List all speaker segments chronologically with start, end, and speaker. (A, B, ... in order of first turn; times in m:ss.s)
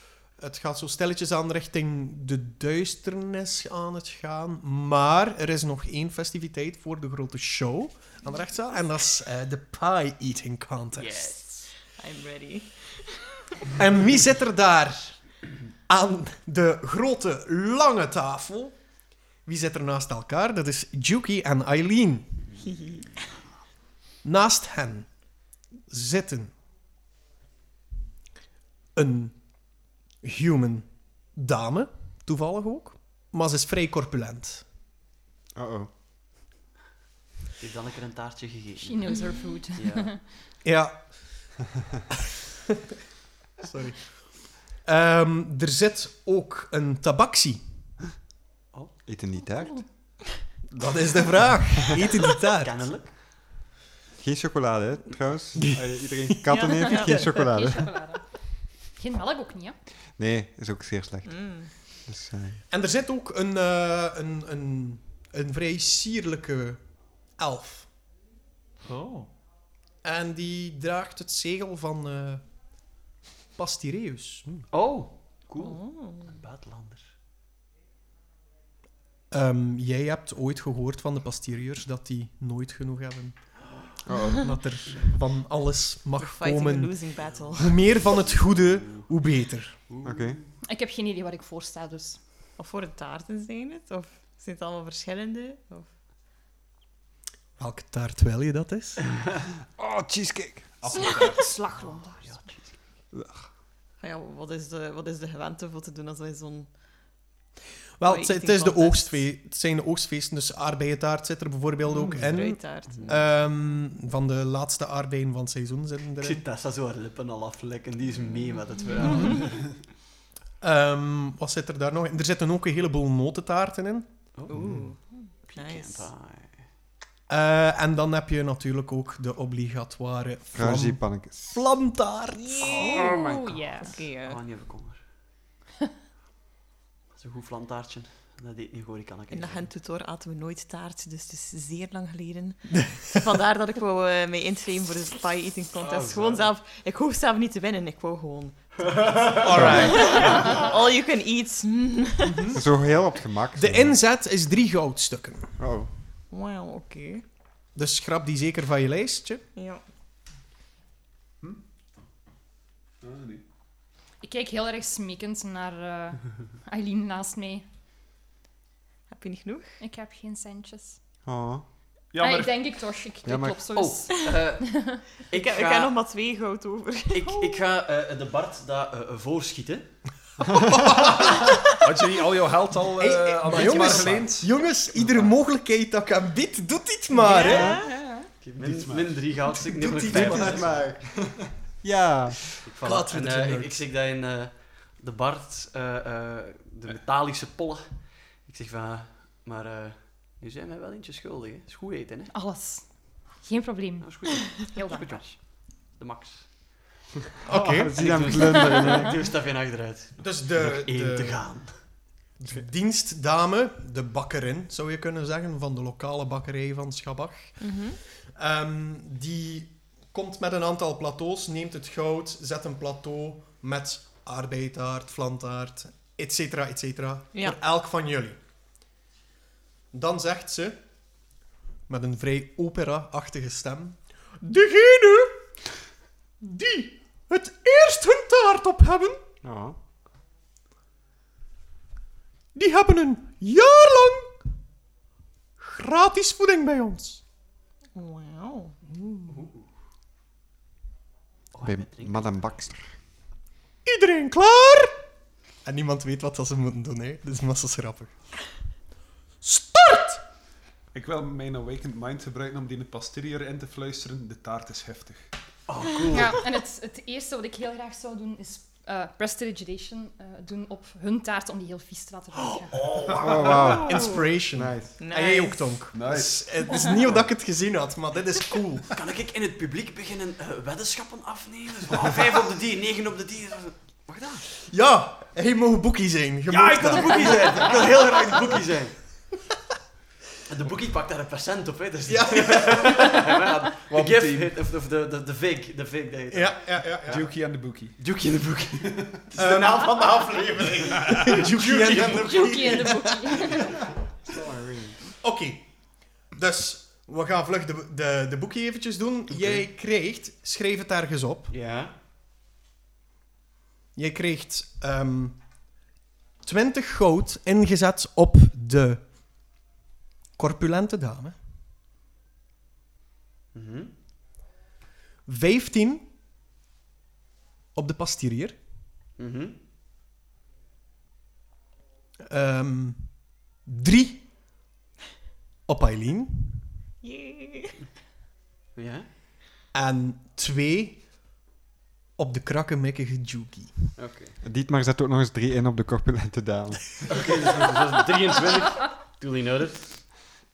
0:00.4-0:11.2 A
0:11.0-0:11.7 B
0:11.9-0:13.3 C
0:13.8-0:15.2 A
0:15.9-0:18.8 A
0:19.5-0:22.5 A
0:24.2-0:25.1 A
0:25.9-0:26.5 A
0:29.0-0:29.4 A
0:30.2-0:34.6 A
0:35.6-0:35.9 D
0:37.6-0:40.1 B
0:38.8-0:40.2 E
0:40.6-0:41.5 A
0:43.6-0:48.0 A
0:49.1-0:49.9 D
0:50.7-0:52.8 A
0:52.6-0:53.2 B
0:54.2-0:58.0 D
0:56.5-0:57.7 C
0:56.9-0:58.2 E
0:59.0-0:59.8 E
1:00.2-1:02.6 D
1:01.3-1:01.7 C
1:02.7-1:07.9 A
1:08.8-1:09.3 A
1:10.0-1:12.4 A
1:13.6-1:14.5 A
1:14.7-1:17.1 B
1:15.6-1:16.3 C
1:19.3-1:23.4 A
1:24.1-1:24.4 D
1:24.4-1:27.0 A
1:26.2-1:27.9 C
1:27.5-1:29.8 A
1:28.2-1:29.0 B
1:29.9-1:30.4 B
1:30.0-1:30.4 D
1:30.6-1:32.2 E
1:32.6-1:35.9 C
1:37.6-1:39.1 A
1:39.8-1:41.1 D
1:40.8-1:41.6 F
1:40.9-1:42.6 E
1:41.8-1:42.7 B
1:43.1-1:43.5 D
1:44.0-1:46.7 C
1:48.0-1:56.4 A
1:48.0-1:49.2 C
1:51.9-1:53.1 C
1:52.9-1:53.2 B
1:56.2-1:59.6 B
1:59.0-1:59.4 C
2:00.6-2:04.1 A
2:04.4-2:04.8 B
2:04.5-2:06.1 C
2:04.5-2:04.9 D
2:05.5-2:06.6 B
2:07.3-2:12.6 A
2:10.5-2:11.6 D
2:12.3-2:14.4 C
2:12.6-2:13.3 B
2:13.0-2:13.6 D
2:14.2-2:15.0 B
2:17.2-2:19.7 B
2:19.3-2:32.5 C
2:22.7-2:23.2 A
2:25.8-2:26.5 B
2:28.8-2:30.5 B
2:29.4-2:30.6 A
2:29.5-2:30.0 D
2:32.3-2:32.6 A
2:32.5-2:34.0 D
2:33.6-2:35.6 A
2:35.6-2:35.9 D
2:36.3-2:37.2 C
2:37.8-2:39.4 A
2:39.6-2:39.8 C
2:43.0-2:43.4 F
2:44.2-2:47.6 E
2:49.1-2:49.8 C
2:49.8-2:51.0 E
2:51.2-2:51.6 D
2:52.1-2:52.7 F
2:52.2-2:55.0 E
2:53.2-2:53.6 D
2:53.7-2:55.9 B
2:55.3-2:57.3 C
2:57.1-2:59.9 B
3:00.7-3:01.6 A
3:01.8-3:04.5 F
3:03.0-3:07.7 A
3:07.1-3:08.0 C
3:07.5-3:07.8 D
3:07.9-3:08.3 E
3:08.4-3:10.8 B
3:08.6-3:09.2 F
3:09.6-3:10.8 A
3:10.0-3:12.5 D
3:12.7-3:22.3 B
3:12.8-3:13.8 A
3:22.3-3:25.4 E
3:24.0-3:26.7 B
3:27.4-3:28.1 A
3:27.5-3:29.2 D
3:27.9-3:31.8 B
3:30.2-3:37.6 A
3:37.6-3:38.0 C
3:38.3-3:48.4 A
3:49.9-3:50.8 A
3:51.9-3:55.4 A
3:56.4-3:59.2 A
3:59.4-3:59.8 D
4:02.6-4:04.4 A
4:05.6-4:07.2 A
4:08.0-4:08.8 C
4:09.3-4:09.7 B
4:11.5-4:12.5 B
4:11.6-4:12.9 D
4:13.8-4:14.9 A
4:15.6-4:18.1 A
4:19.4-4:20.2 A
4:20.9-4:25.3 F
4:25.7-4:26.4 B
4:26.1-4:32.9 E
4:32.4-4:33.7 B
4:33.2-4:35.0 D
4:33.4-4:33.6 F
4:33.8-4:34.2 C
4:33.8-4:38.9 A
4:35.0-4:35.8 C
4:35.9-4:37.2 F
4:39.0-4:44.4 B
4:44.7-4:47.6 A
4:46.5-4:49.0 B
4:50.5-4:57.3 B
4:52.1-4:53.2 A
4:53.9-4:54.5 F
4:56.3-4:57.2 A
4:57.1-4:58.0 F
4:58.0-5:02.9 B
4:59.4-5:00.0 A
5:01.1-5:03.5 A
5:02.0-5:03.7 E
5:04.3-5:05.0 D
5:05.2-5:05.7 A
5:06.2-5:11.5 A
5:09.4-5:09.6 B
5:11.5-5:11.9 B
5:14.0-5:15.4 A
5:16.4-5:19.0 A
5:20.4-5:21.4 A
5:23.5-5:23.9 B
5:25.3-5:26.1 A
5:27.8-5:28.6 A
5:29.2-5:29.6 B
5:32.3-5:34.3 A
5:35.7-5:36.6 A
5:37.0-5:37.8 C
5:38.8-5:39.1 B
5:39.7-5:41.0 A
5:42.2-5:43.7 A
5:44.0-5:44.4 B
5:44.4-5:47.0 D
5:47.1-5:50.0 B